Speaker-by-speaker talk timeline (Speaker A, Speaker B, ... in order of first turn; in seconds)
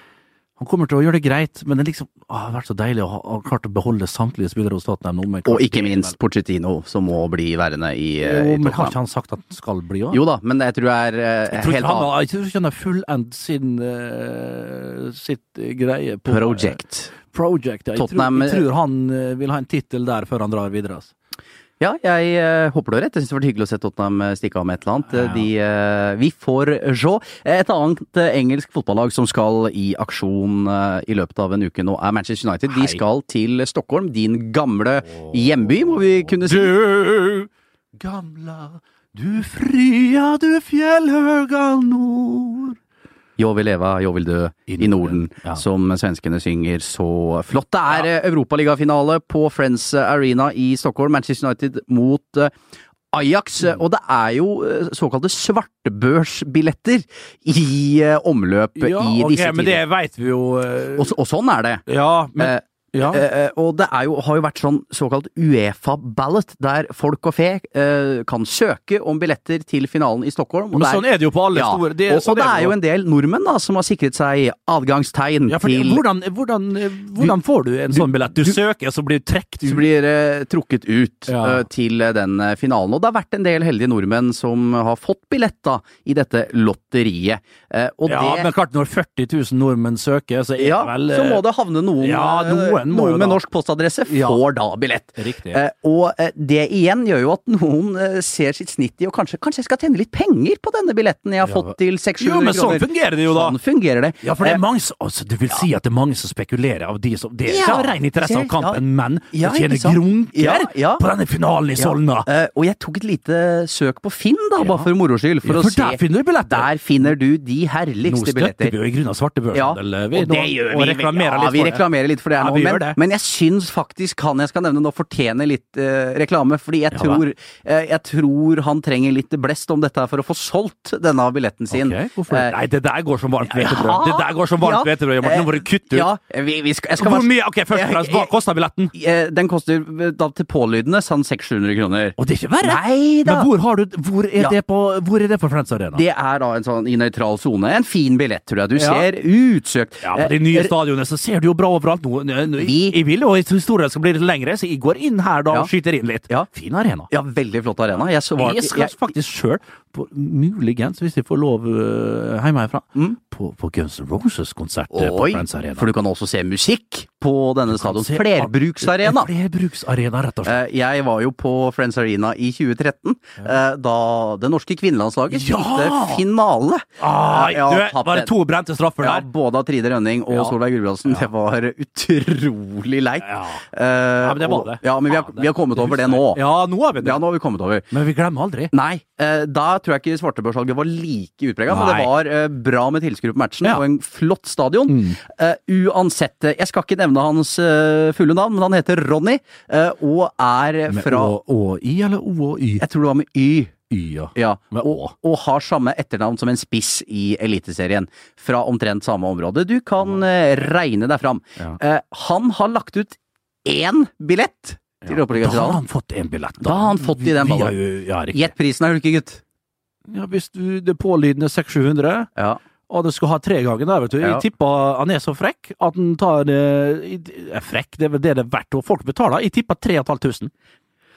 Speaker A: 0.6-6.2, 8.2-10.2, 11.5-21.1, 25.1-25.5, 32.7-33.0, 35.1-42.8, 44.7-45.6, 58.8-61.1, 61.9-63.2, 70.7-72.8, 75.5-79.8, 81.3-81.6, 88.1-91.5, 92.0-93.4, 94.1-94.4, 95.2-95.6, 101.4-103.6, 104.2-112.3, 114.6-114.9, 115.4-117.1, 118.0-123.0, 126.9-127.2, 131.7-136.1, 137.0-138.9, 142.2-146.0, 148.8-149.1, 150.0-157.1, 158.4-165.9, 167.7-170.6, 175.3-176.2, 177.0-179.3, 180.3-181.3, 183.2-183.6, 184.2-187.2, 187.9-188.7, 191.7-192.1, 194.9-195.2, 200.9-202.8, 203.9-205.1, 215.0-218.5, 220.1-222.3, 222.9-230.5
Speaker B: 5.5-9.0, 10.1-12.1, 16.3-17.1, 18.0-18.6, 21.8-36.8, 43.4-52.5, 53.1-59.8, 61.0-61.9, 62.4-76.0, 77.9-78.5, 79.6-88.5, 90.6-104.6, 107.5-111.1, 111.8-118.8, 119.5-132.6, 133.5-138.3, 138.9-143.5, 145.9-150.7, 152.6-153.0, 157.1-159.0, 164.9-169.3, 170.4-178.3, 179.0-186.4, 187.0-187.9, 188.7-201.4, 202.8-203.7, 204.3-215.8, 216.6-219.4, 224.2-224.4